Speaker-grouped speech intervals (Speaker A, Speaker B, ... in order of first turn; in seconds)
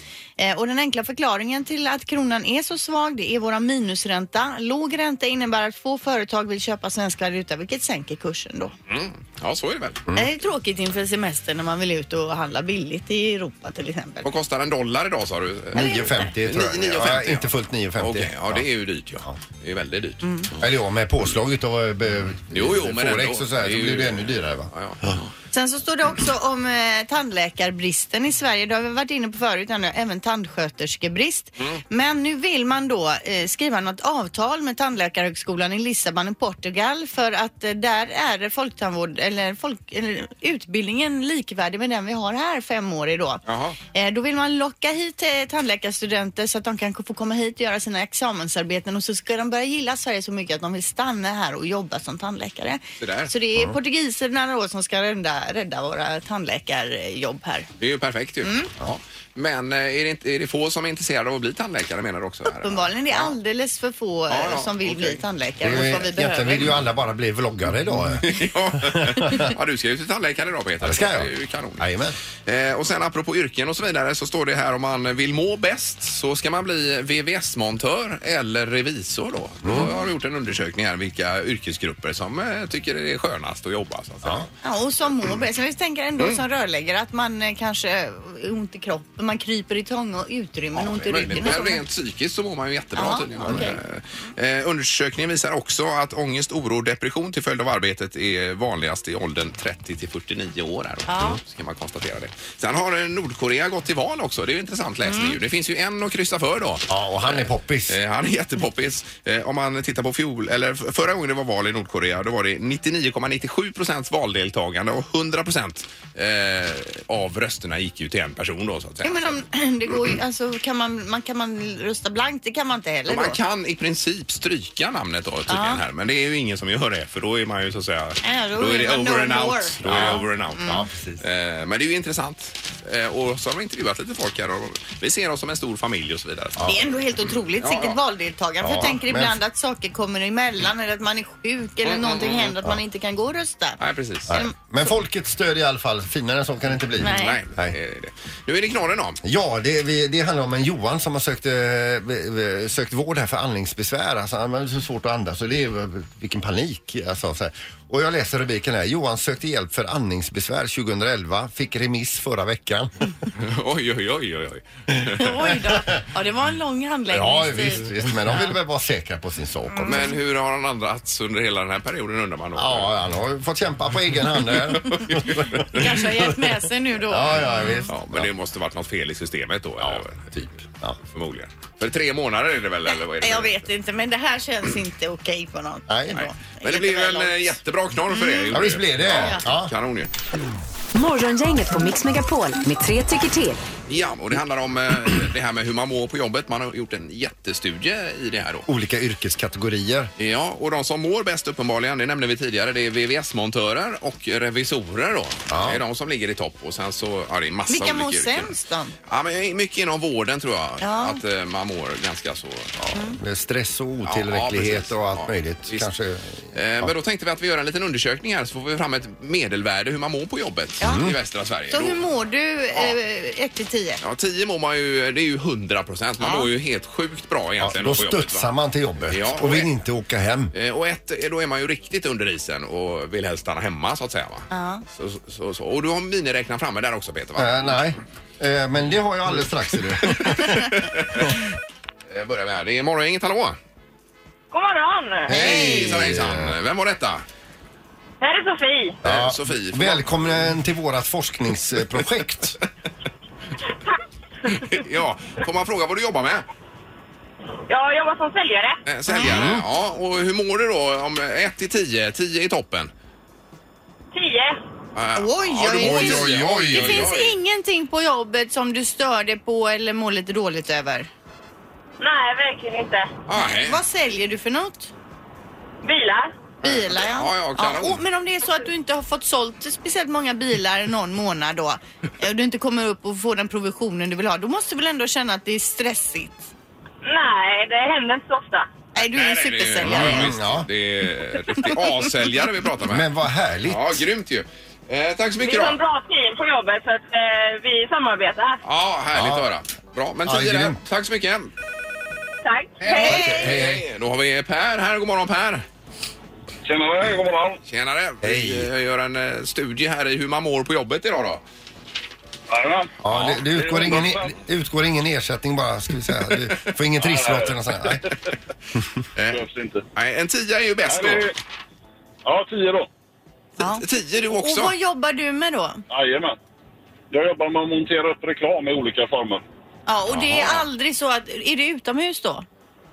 Speaker A: 0.4-8.7, 10.1-14.3, 15.8-16.1, 20.2-20.5, 25.5-57.7, 58.4-58.7, 62.5-66.7, 84.6-91.8, 93.0-93.8, 101.1-101.4, 105.0-105.4, 119.0-123.4, 125.5-125.8, 128.2-130.8, 136.6-144.5, 147.0-147.4, 165.2-167.9, 175.7-177.9, 182.9-187.6, 188.1-188.6, 189.1-189.4, 207.7-208.9, 210.8-211.2, 212.9-213.2, 221.7-224.0, 226.2-226.5, 234.5-234.8, 259.1-259.4, 265.1-271.1, 273.4-274.9, 276.6-286.5, 288.9-290.3, 323.6-323.8, 324.3-325.8, 329.9-332.4
Speaker B: 8.9-10.0, 14.2-20.6, 22.5-25.3, 43.5-43.8, 53.0-53.3, 57.8-63.3, 64.3-65.2, 68.0-71.8, 72.5-84.5, 90.7-119.4, 123.1-136.7, 137.6-138.0, 141.8-142.5, 143.8-144.3, 147.0-149.2, 163.3-165.3, 169.8-172.9, 174.9-175.7, 177.9-180.3, 181.1-183.6, 186.2-190.1, 193.9-198.7, 200.2-208.5, 209.1-212.7, 214.0-215.9, 216.5-222.0, 224.0-228.5, 229.1-229.7, 230.5-237.9, 239.9-241.4, 242.1-243.6, 245.3-247.2, 249.0-250.2, 254.5-256.4, 258.9-262.9, 264.9-267.3, 273.3-273.8, 276.6-278.0, 289.1-293.1, 293.6-295.8, 298.6-301.5, 302.8-305.6, 307.7-311.4, 313.1-313.4, 319.1-319.4, 319.9-321.3, 323.6-324.7, 330.1-330.6
Speaker C: 15.7-18.6, 20.6-24.7, 65.6-69.5, 70.8-72.2, 79.6-79.9, 93.4-93.7, 106.9-108.0, 129.8-131.2, 138.6-139.3, 144.3-147.8, 149.2-163.1, 167.1-170.1, 172.6-178.3, 179.8-181.0, 185.9-186.2, 188.5-189.7, 198.7-200.1, 205.5-205.8, 212.8-216.9, 220.8-221.2, 227.6-230.5, 237.4-241.4, 245.3-246.6, 249.0-252.6, 259.2-259.6, 265.7-267.1, 289.8-290.7, 292.8-294.0, 299.1-299.5, 300.2-300.8, 302.9-303.8, 308.2-308.7, 313.0-318.0
Speaker D: 190.9-193.6
Speaker E: 244.5-245.4, 248.2-249.0, 257.7-258.8, 264.1-264.6, 272.0-273.1, 275.8-276.3, 287.0-288.7, 295.4-298.6, 302.4-303.4
Speaker F: 306.6-307.6, 312.5-312.9, 313.5-314.3, 317.0-318.0, 319.3-319.8, 320.9-321.3, 322.2-322.9, 325.9-326.4, 327.1-329.4